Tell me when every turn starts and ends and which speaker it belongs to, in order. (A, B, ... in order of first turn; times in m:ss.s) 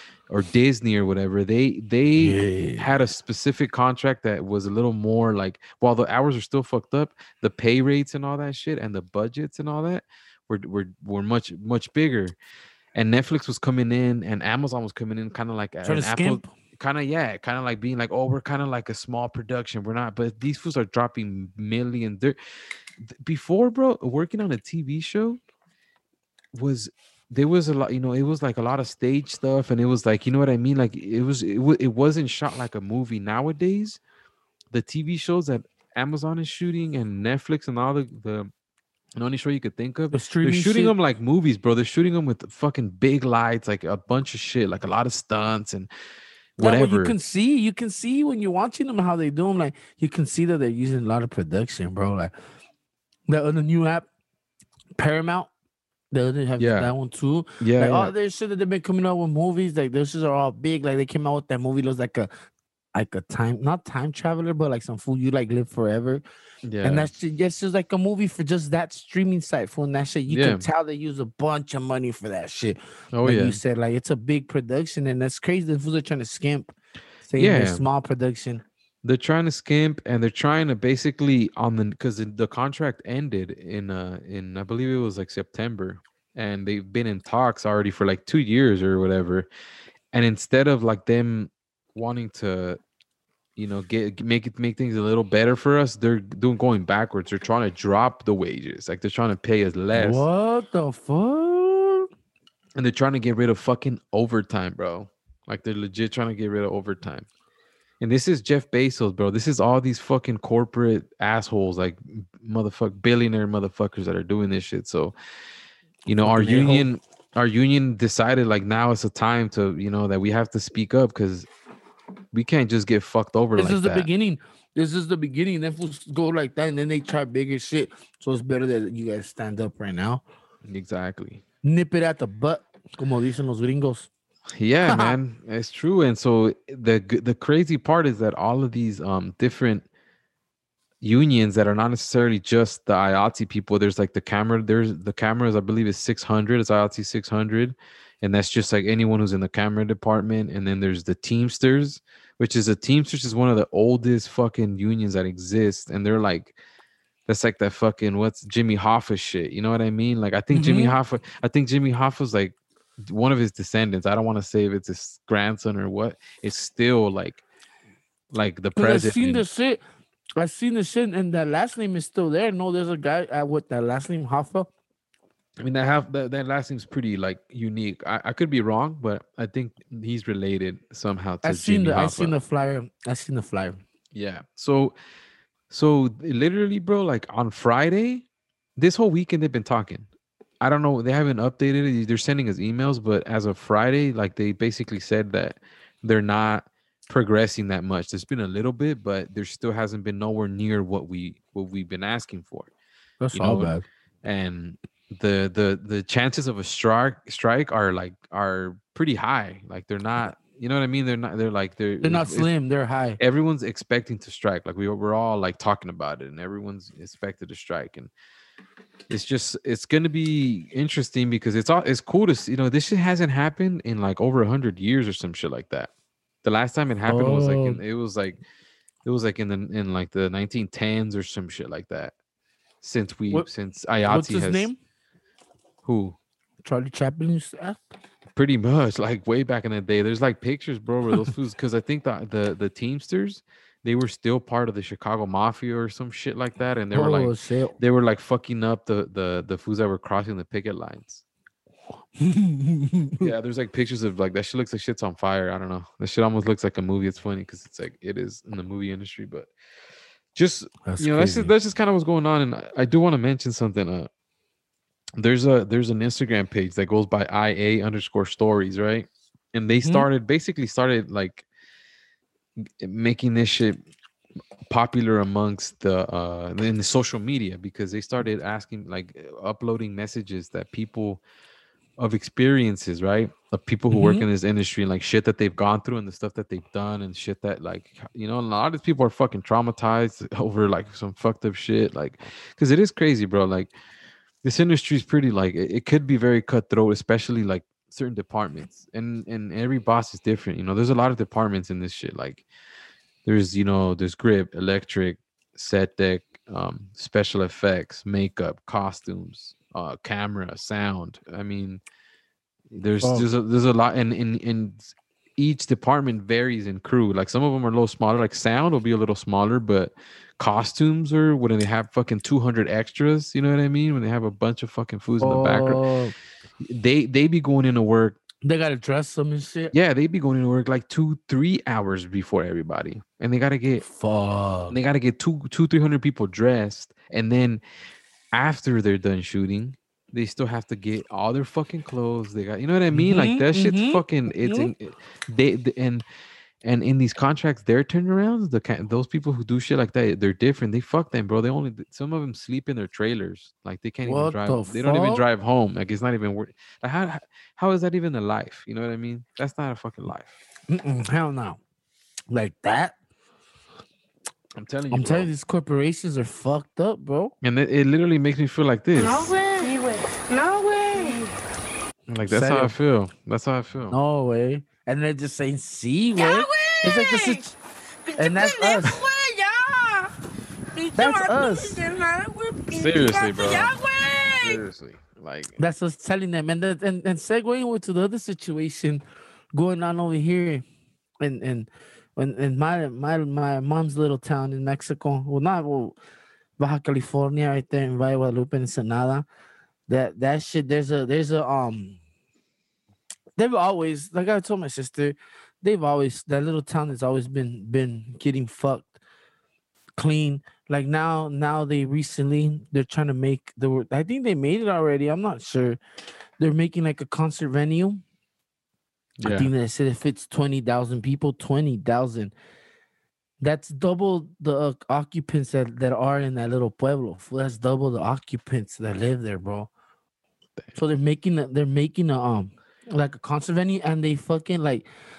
0:00.3-0:12.4 A
0:02.2-0:02.9 B
0:12.9-0:22.4 A
0:15.8-0:16.5 B
0:23.0-0:25.4 A
0:26.5-0:34.0 A
0:34.7-0:38.5 A
0:39.2-0:45.9 A
0:40.1-0:40.9 B
0:46.6-0:47.2 A
0:46.6-0:52.3 B
0:53.3-0:54.0 B
0:55.0-0:55.5 B
0:56.1-1:02.3 B
0:56.6-0:56.9 A
0:57.6-0:58.1 A
1:02.9-1:06.2 B
1:06.6-1:07.1 A
1:06.8-1:16.7 B
1:10.3-1:10.6 A
1:13.1-1:13.6 A
1:17.3-1:18.6 B
1:17.4-1:17.8 A
1:19.0-1:29.5 A
1:30.1-1:32.8 A
1:33.6-1:40.2 A
1:39.9-1:42.0 B
1:42.8-1:47.3 A
1:48.0-1:55.1 A
1:56.0-2:01.5 A
1:56.2-1:56.9 B
2:02.3-2:04.1 A
2:03.6-2:10.2 B
2:10.6-2:11.4 A
2:11.6-2:14.1 B
2:14.6-2:19.8 A
2:14.8-2:15.2 B
2:21.0-2:36.6 A
2:37.3-2:47.4 A
2:40.5-2:40.9 B
2:48.3-2:49.4 A
2:48.8-2:49.8 B
2:50.4-2:54.7 B
2:55.6-3:02.3 A
3:01.4-3:03.8 B
3:04.1-3:05.0 A
3:05.7-3:08.2 A
3:08.8-3:10.1 A
3:10.6-3:22.7 A
3:23.2-3:23.8 B
3:23.3-3:23.7 A
3:24.2-3:32.5 A
3:32.0-3:33.2 B
3:33.2-3:38.1 A
3:39.1-3:45.9 A
3:46.4-3:48.4 A
3:47.0-3:47.8 B
3:49.0-3:52.1 A
3:52.8-3:54.7 A
3:54.1-3:54.8 B
3:55.8-3:56.2 A
3:56.6-3:57.8 B
3:58.3-4:11.2 A
4:06.9-4:07.8 B
4:12.2-4:13.3 B
4:13.2-4:19.5 A
4:20.3-4:24.1 A
4:20.8-4:21.5 B
4:25.2-4:31.4 A
4:29.8-4:30.1 B
4:32.6-4:33.8 A
4:34.7-4:41.2 A
4:42.0-4:53.7 A
4:43.9-4:44.2 B
4:54.4-5:02.4 A
5:03.2-5:11.8 A
5:12.7-5:25.8 A
5:13.0-5:13.3 B
5:25.2-5:26.1 B
5:26.6-5:28.2 A
5:28.4-5:29.7 B
5:29.7-5:33.8 A
5:33.8-5:34.8 B
5:34.7-5:37.6 A
5:38.3-5:46.0 A
5:42.9-5:44.7 B
5:46.6-6:00.4 A
5:54.0-5:55.2 B
6:00.7-6:01.6 B
6:02.3-6:02.9 B
6:04.6-6:05.3 A
6:04.9-6:07.3 B
6:07.4-6:09.3 A
6:09.0-6:11.3 C
6:12.1-6:14.0 A
6:12.3-6:12.7 B
6:13.9-6:17.5 B
6:16.2-6:17.5 C
6:18.1-6:20.1 C
6:18.2-6:19.0 B
6:20.7-6:24.6 C
6:21.0-6:21.8 B
6:22.7-6:23.7 A
6:24.4-6:25.6 A
6:25.6-6:29.0 B
6:29.5-6:30.6 B
6:31.2-6:36.0 B
6:36.6-6:39.2 B
6:39.9-6:42.0 B
6:43.4-6:48.9 B
6:50.0-6:55.8 B
6:56.4-6:58.0 B
6:59.2-6:59.5 A
6:59.2-7:02.3 B
7:03.4-7:09.7 B
7:10.7-7:14.8 B